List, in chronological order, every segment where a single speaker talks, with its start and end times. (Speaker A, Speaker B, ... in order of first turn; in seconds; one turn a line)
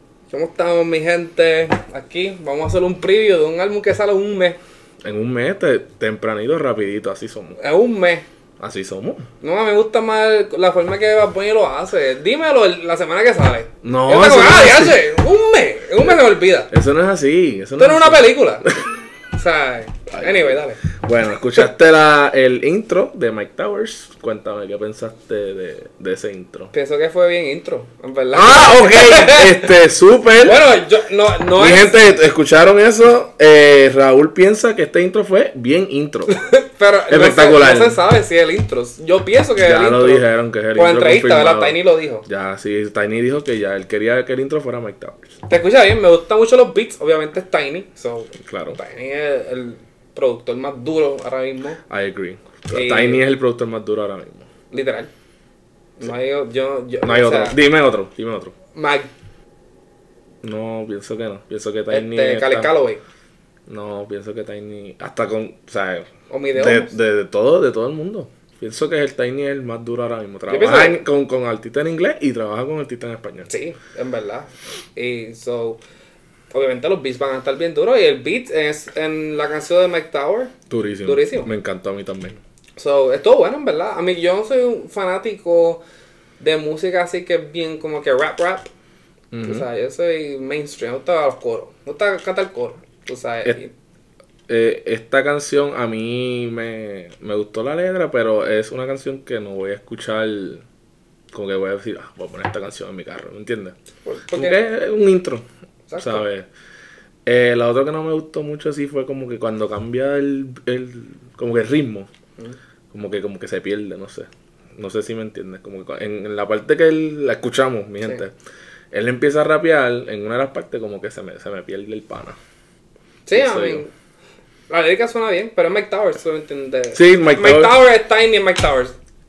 Speaker A: 0.3-4.6
Speaker B: 5.0-7.6
Speaker A: 7.6-8.3
Speaker B: 8.6-9.3
Speaker A: 9.4-16.7
Speaker B: 13.8-15.1
Speaker B: 16.7-18.7
Speaker A: 17.8-18.7
Speaker A: 19.3-20.8
Speaker B: 20.1-26.7
Speaker A: 26.7-29.7
Speaker B: 28.3-30.6
Speaker A: 30.4-32.0
Speaker B: 31.6-36.4
Speaker A: 36.3-42.3
Speaker B: 37.1-38.0
Speaker B: 39.6-45.4
Speaker A: 45.5-51.8
Speaker B: 48.4-48.8
Speaker B: 51.9-54.5
Speaker A: 52.7-53.2
Speaker A: 54.7-55.1
Speaker A: 56.0-57.6
Speaker B: 57.0-58.5
Speaker A: 58.7-59.1
Speaker B: 60.4-62.7
Speaker A: 61.9-63.0
Speaker B: 63.7-73.5
Speaker A: 66.3-67.0
Speaker A: 70.5-71.0
Speaker A: 73.5-75.8
Speaker A: 76.5-80.5
Speaker B: 80.7-82.4
Speaker A: 81.0-81.5
Speaker A: 82.8-85.8
Speaker A: 86.4-88.7
Speaker B: 89.3-89.7
Speaker A: 89.4-93.7
Speaker B: 94.5-100.6
Speaker B: 101.3-103.8
Speaker A: 104.0-104.6
Speaker B: 104.3-105.5
Speaker A: 105.9-106.3
Speaker B: 106.0-106.5
Speaker B: 107.2-112.1
Speaker B: 112.9-118.3
Speaker B: 118.9-122.4
Speaker A: 123.3-123.9
Speaker B: 123.3-123.8
Speaker A: 124.7-129.0
Speaker B: 126.9-127.8